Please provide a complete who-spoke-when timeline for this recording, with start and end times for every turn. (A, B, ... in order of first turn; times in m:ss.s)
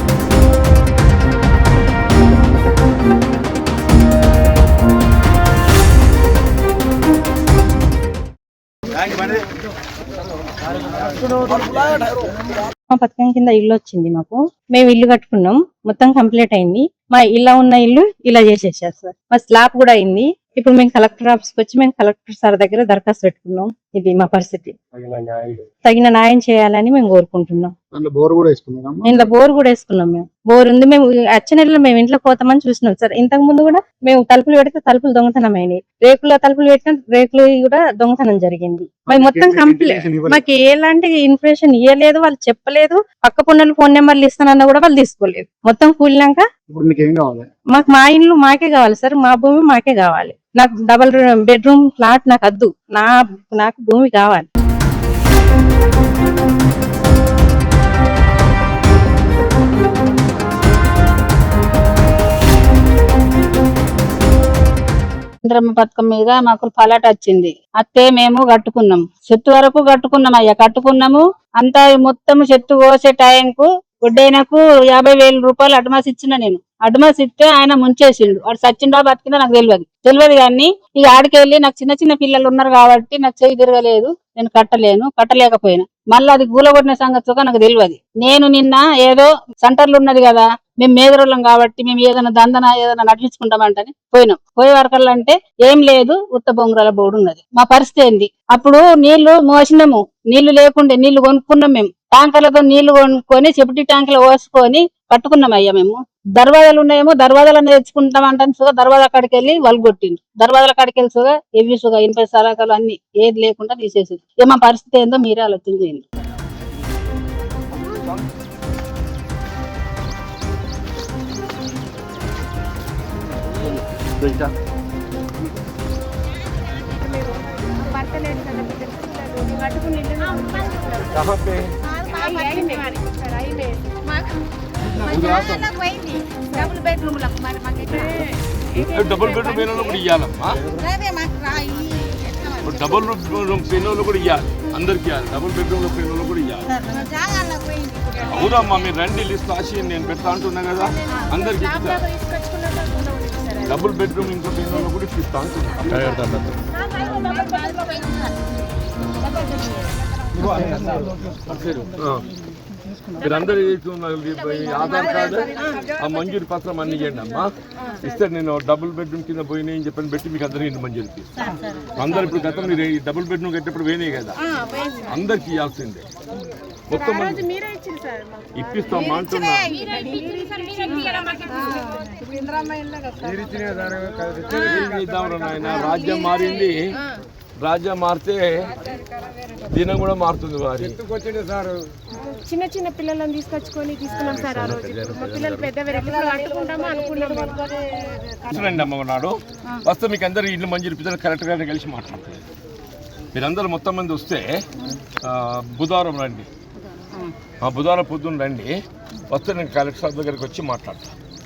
0:12.9-0:24.8 A
0:25.0-0:25.6 B
0:25.8-0:27.7 A
0:27.9-0:29.3 B
0:29.0-0:46.4 A
0:39.1-0:40.4 B
0:46.7-0:47.5 B
0:47.7-0:54.5 A
1:05.4-1:56.0 C
2:06.9-2:11.2 D
2:11.0-2:11.7 E
2:12.0-2:12.8 F
2:12.1-2:13.8 D
2:15.0-2:15.7 E
2:15.0-2:18.1 F
2:17.9-2:20.0 D
2:18.9-2:20.8 E
2:20.8-2:23.0 F
2:22.6-2:26.8 E
2:26.7-2:28.9 F
2:28.3-2:32.0 E
2:31.2-2:33.8 D
2:33.7-2:36.2 E
2:37.2-2:38.1 F
2:41.5-2:42.2 E
2:43.2-2:47.5 E
2:48.0-2:51.3 E
2:52.0-2:54.4 E
2:52.0-2:52.3 F
2:54.7-2:55.1 D
2:55.1-2:56.0 E
2:56.9-2:57.5 E
2:57.0-2:59.2 D
2:58.6-2:59.8 E
2:59.1-3:01.2 F
2:59.7-3:02.1 D
3:04.5-3:06.8 E
3:07.6-3:08.7 E
3:09.7-3:11.0 E
3:12.3-3:17.7 D
3:18.5-3:22.4 E
3:23.3-3:24.5 E
3:25.2-3:26.5 E
3:27.6-3:28.7 E
3:29.3-3:31.1 E